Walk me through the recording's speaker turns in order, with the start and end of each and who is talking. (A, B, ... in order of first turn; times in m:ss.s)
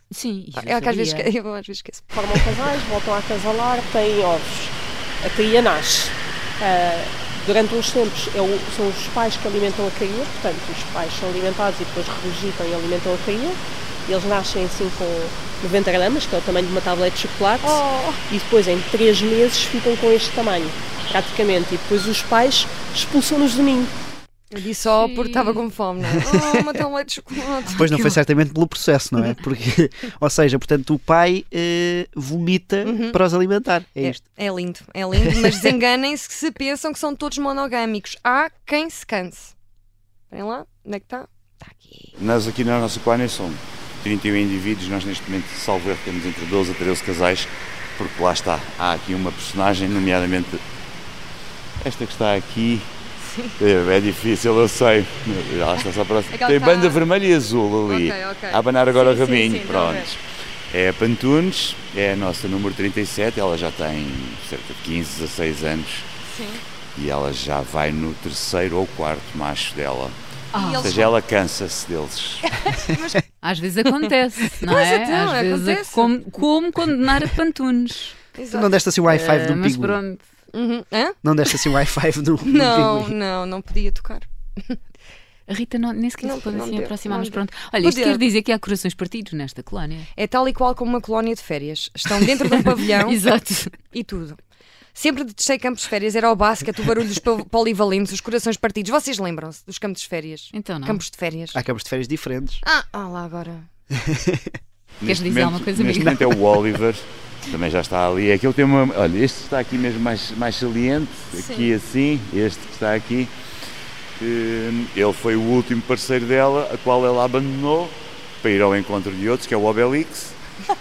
0:00.1-0:01.3 A
0:00.6-0:02.1 B
0:02.1-0:23.9 C
0:17.6-0:18.2 B
0:24.5-0:27.8 B
0:24.8-0:25.6 A
0:27.6-0:28.2 A
0:27.8-0:34.2 D
0:32.8-0:33.2 B
0:34.0-0:39.5 B
0:40.3-0:42.2 B
0:42.2-0:50.6 E
0:51.8-0:52.9 E
0:53.6-1:06.1 E
0:56.3-0:57.0 B
0:57.9-1:00.1 B
1:06.3-1:06.6 B
1:07.0-1:10.2 E
1:10.5-1:11.0 A
1:10.5-1:11.2 B
1:10.8-1:12.5 E
1:12.6-1:13.2 B
1:13.4-1:18.2 A
1:14.7-1:16.1 B
1:18.4-1:18.7 B
1:18.5-1:20.0 D
1:19.1-1:20.2 A
1:20.5-1:21.6 B
1:21.2-1:23.1 D
1:22.4-1:24.8 B
1:25.5-1:30.1 A
1:26.2-1:28.2 B
1:30.2-1:33.2 B
1:32.5-1:33.7 A
1:33.9-1:34.4 B
1:35.0-1:41.6 B
1:40.5-1:41.0 A
1:41.5-1:42.6 D
1:42.6-1:43.7 B
1:43.9-1:44.5 D
1:45.0-1:53.3 E
1:45.1-1:46.2 A
1:51.3-1:51.7 B
1:54.2-2:00.4 E